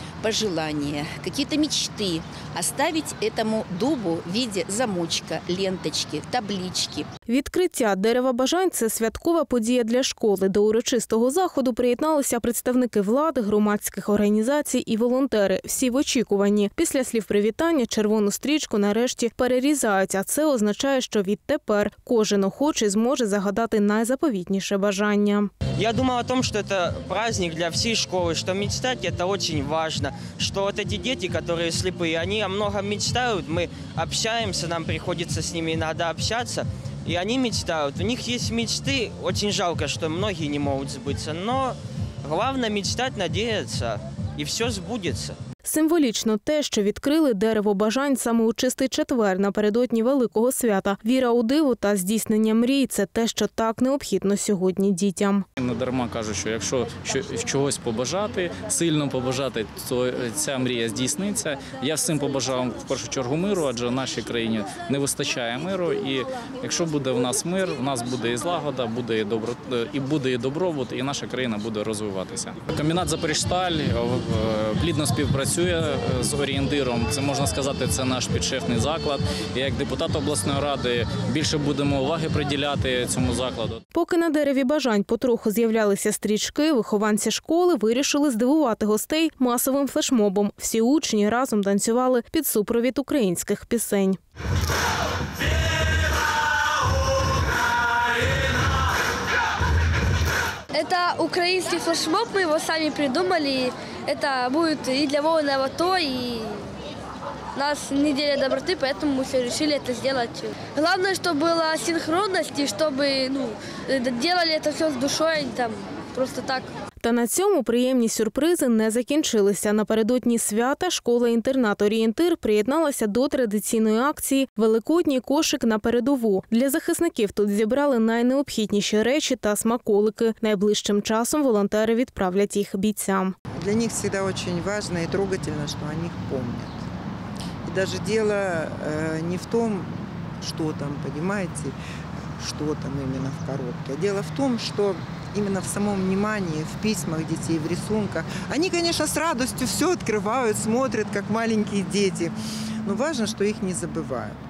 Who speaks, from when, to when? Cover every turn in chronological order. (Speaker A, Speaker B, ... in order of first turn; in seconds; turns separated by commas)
Speaker A: 0.2-7.1, Speaker B: 7.3-25.5, Speaker C: 25.8-45.4, Speaker B: 45.6-55.5, Speaker D: 55.6-83.8, Speaker B: 83.9-94.2, Speaker E: 100.7-106.6, Speaker E: 107.6-116.7, Speaker B: 117.0-133.3, Speaker F: 133.6-136.8, Speaker F: 137.6-141.8, Speaker F: 142.4-154.4